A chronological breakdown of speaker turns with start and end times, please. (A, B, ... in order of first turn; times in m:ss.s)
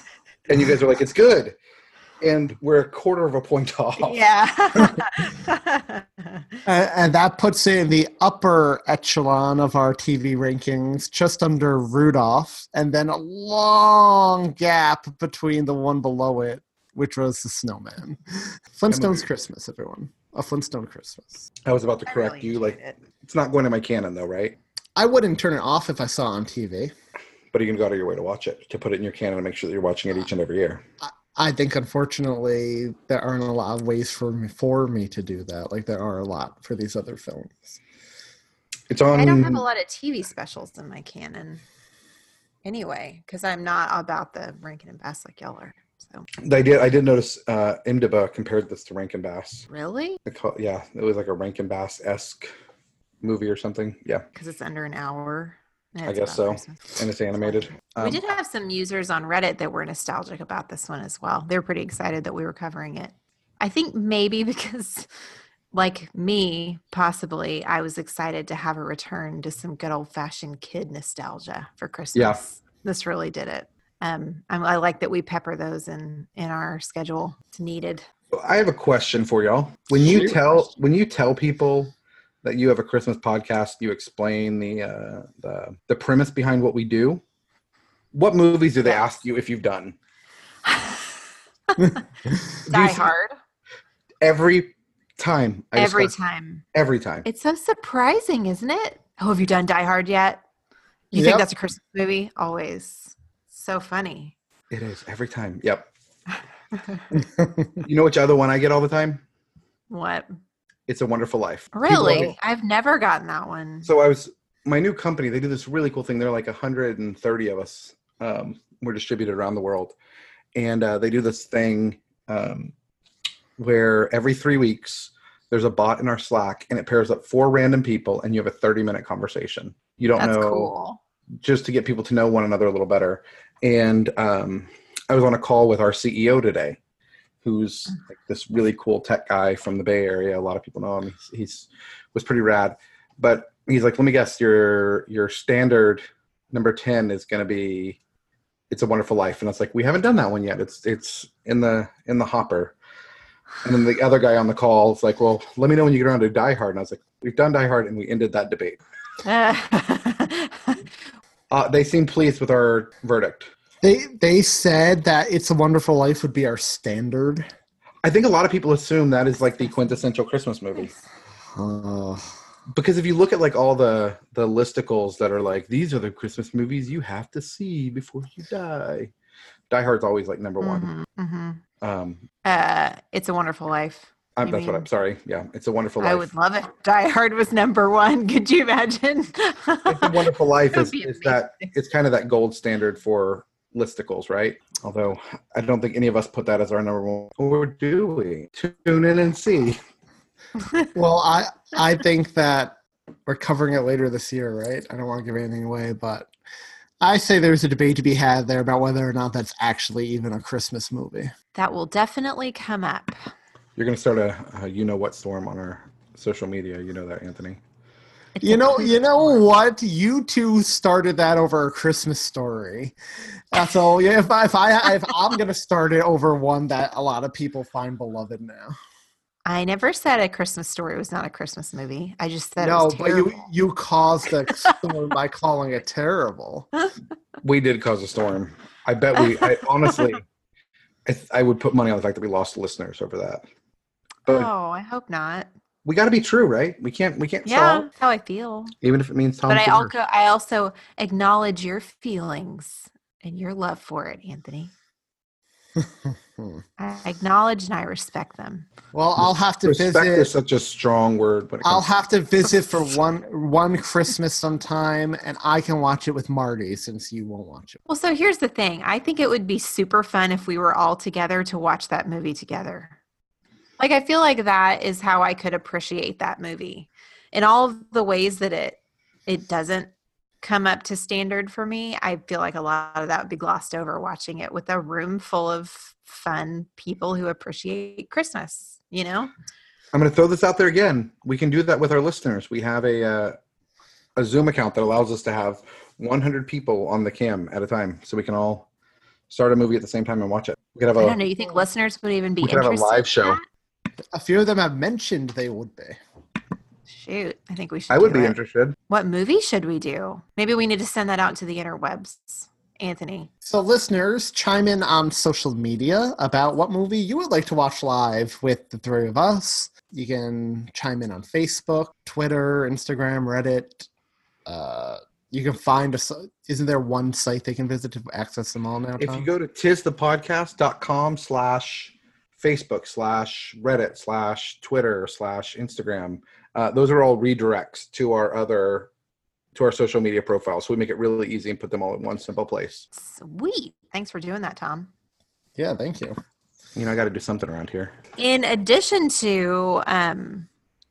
0:00.5-0:01.6 A
0:02.2-0:04.2 A
0:04.0-0:06.4 B
0:06.6-0:21.5 C
0:18.9-0:19.2 A
0:21.6-0:24.6 A
0:22.0-0:23.0 B
0:25.0-0:26.9 C
0:27.5-0:30.8 A
0:31.0-0:37.8 C
0:38.9-0:39.6 A
0:39.2-0:41.6 B
0:42.6-0:46.2 B
0:46.4-0:49.6 A
0:49.7-0:50.2 B
0:50.2-0:52.5 A
0:53.2-0:54.2 A
0:54.3-1:05.1 B
0:56.0-0:58.2 A
1:05.7-1:18.0 B
1:12.1-1:12.4 A
1:18.3-1:27.2 A
1:20.0-1:20.4 C
1:28.1-1:29.9 A
1:30.6-1:31.0 B
1:31.7-1:32.0 B
1:32.7-1:33.1 A
1:32.7-1:33.3 B
1:34.2-1:36.1 A
1:35.8-1:36.6 B
1:36.7-1:37.2 A
1:37.2-1:40.4 B
1:41.1-1:44.3 B
1:41.1-1:41.4 C
1:44.7-1:45.9 A
1:46.8-1:47.0 B
1:47.2-1:47.7 C
1:47.8-1:49.2 A
1:49.9-1:50.3 B
1:50.9-1:52.3 A
1:51.7-1:53.9 B
1:51.9-1:52.3 C
1:53.8-1:59.9 A
2:00.5-2:02.7 A
2:03.6-2:10.7 A
2:10.2-2:11.0 B
2:11.4-2:16.8 A
2:17.4-2:28.0 A
2:28.7-2:32.7 A
2:33.6-2:38.8 A
2:39.2-2:40.8 B
2:41.5-2:43.5 A
2:43.8-2:47.5 C
2:48.0-2:50.9 A
2:51.5-2:52.3 C
2:52.7-2:59.1 A
2:59.7-3:00.9 A
3:00.6-3:01.6 B
3:01.8-3:02.2 A
3:02.4-3:04.9 B
3:04.4-3:06.3 A
3:06.0-3:11.7 B
3:09.9-3:19.8 A
3:20.9-3:26.3 C
3:27.0-3:31.3 C
3:31.5-3:33.2 B
3:33.8-3:37.6 A
3:38.4-3:39.4 B
3:38.4-3:42.9 C
3:43.5-3:48.8 C
3:49.4-3:53.5 B
3:52.6-3:56.7 C
3:57.4-4:00.2 A
4:01.0-4:03.4 A
4:04.2-4:05.5 B
4:05.8-4:07.9 A
4:07.4-4:08.7 B
4:08.8-4:09.9 A
4:09.5-4:14.7 B
4:15.8-4:16.6 C
4:16.8-4:18.7 B
4:18.9-4:20.3 C
4:19.6-4:21.8 A
4:21.6-4:27.8 C
4:27.9-4:33.0 B
4:33.8-4:39.9 B
4:40.4-4:49.3 B
4:49.9-4:53.4 A
4:54.2-4:58.7 A
4:59.3-5:01.2 A
5:01.0-5:03.4 B
5:02.4-5:03.4 A
5:04.1-5:06.0 C
5:06.9-5:08.4 B
5:07.9-5:08.8 A
5:08.9-5:13.3 B
5:13.4-5:23.9 C
5:24.4-5:29.3 C
5:29.0-5:38.9 A
5:39.5-5:42.8 A
5:42.9-5:44.9 B
5:45.6-5:46.2 C
5:46.7-5:47.9 A
5:48.2-5:50.5 B